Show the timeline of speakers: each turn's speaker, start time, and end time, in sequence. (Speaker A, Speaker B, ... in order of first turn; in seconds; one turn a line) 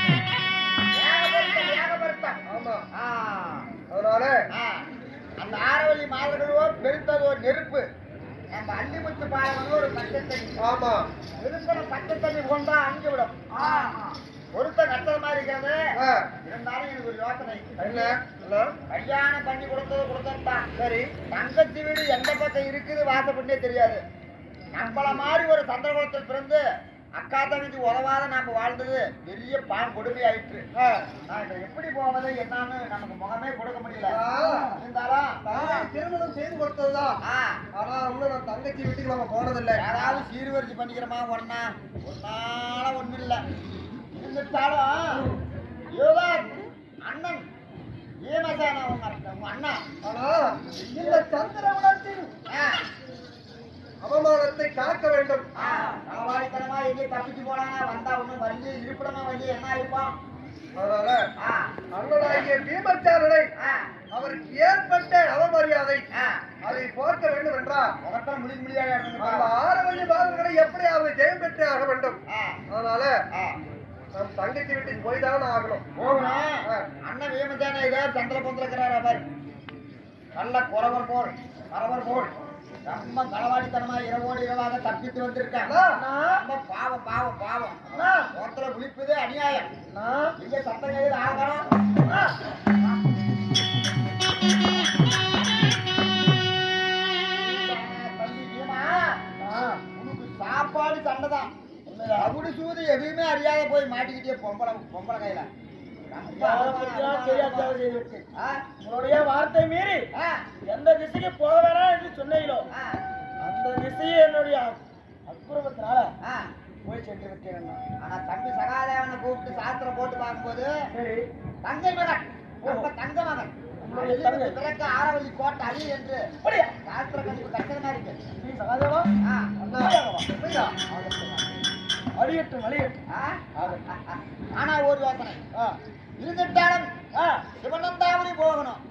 Speaker A: 0.9-2.4
Speaker B: 2.5-2.8
Speaker A: 2.9-3.7
Speaker B: 3.9-4.3
Speaker A: 4.5-4.8
Speaker A: 5.4-7.9
Speaker A: 8.5-10.5
Speaker B: 10.6-11.1
Speaker A: 11.4-13.5
Speaker C: 13.6-14.0
Speaker A: 14.5-15.8
Speaker B: 16.0-16.3
Speaker A: 16.4-18.1
Speaker B: 17.8-18.7
Speaker A: 18.9-20.6
Speaker B: 20.8-21.1
Speaker A: 21.3-24.0
Speaker A: 24.7-26.6
Speaker A: 27.2-30.6
Speaker B: 30.8-31.1
Speaker A: 31.3-34.2
Speaker B: 34.1-34.7
Speaker A: 34.8-35.4
Speaker B: 35.5-37.2
Speaker A: 37.2-37.6
Speaker B: 37.7-39.8
Speaker A: 39.8-43.4
Speaker A: 44.1-45.2
Speaker A: 45.9-47.4
Speaker A: 48.2-49.8
Speaker B: 50.0-52.3
Speaker A: 50.9-51.1
Speaker A: 52.5-52.8
Speaker B: 54.0-55.5
Speaker A: 55.5-60.1
Speaker B: 60.8-61.2
Speaker A: 61.4-61.7
Speaker B: 61.9-63.5
Speaker A: 63.6-63.9
Speaker B: 64.1-66.0
Speaker A: 66.1-66.5
Speaker B: 66.6-67.9
Speaker A: 68.0-69.5
Speaker B: 69.2-72.2
Speaker A: 72.3-72.6
Speaker B: 72.7-73.2
Speaker A: 73.3-73.6
Speaker B: 74.1-75.9
Speaker A: 76.0-79.2
Speaker A: 80.3-82.3
Speaker A: 82.8-85.7
Speaker B: 85.7-86.0
Speaker C: 85.9-86.4
Speaker A: 86.3-89.7
Speaker C: 87.9-88.3
Speaker C: 89.9-90.3
Speaker A: 90.4-91.7
Speaker C: 92.1-92.3
Speaker A: 97.3-99.2
Speaker C: 99.4-99.8
Speaker A: 100.0-101.5
Speaker C: 101.9-102.3
Speaker A: 102.2-105.5
Speaker A: 106.1-107.8
Speaker C: 106.3-108.2
Speaker A: 108.3-108.7
Speaker C: 108.8-110.1
Speaker A: 110.1-110.5
Speaker C: 110.6-112.7
Speaker A: 112.7-113.0
Speaker C: 113.4-116.1
Speaker A: 116.2-116.5
Speaker C: 116.8-117.8
Speaker A: 118.0-120.7
Speaker C: 120.9-121.3
Speaker A: 121.6-126.3
Speaker C: 122.6-122.9
Speaker C: 123.8-124.6
Speaker C: 126.4-126.7
Speaker A: 126.8-128.3
Speaker C: 128.3-129.1
Speaker A: 129.2-129.5
Speaker B: 129.6-130.8
Speaker C: 129.6-130.3
Speaker C: 130.9-131.5
Speaker C: 132.1-133.0
Speaker A: 133.1-135.4
Speaker C: 133.6-133.8
Speaker A: 136.2-136.9
Speaker C: 137.1-137.4
Speaker A: 137.6-138.8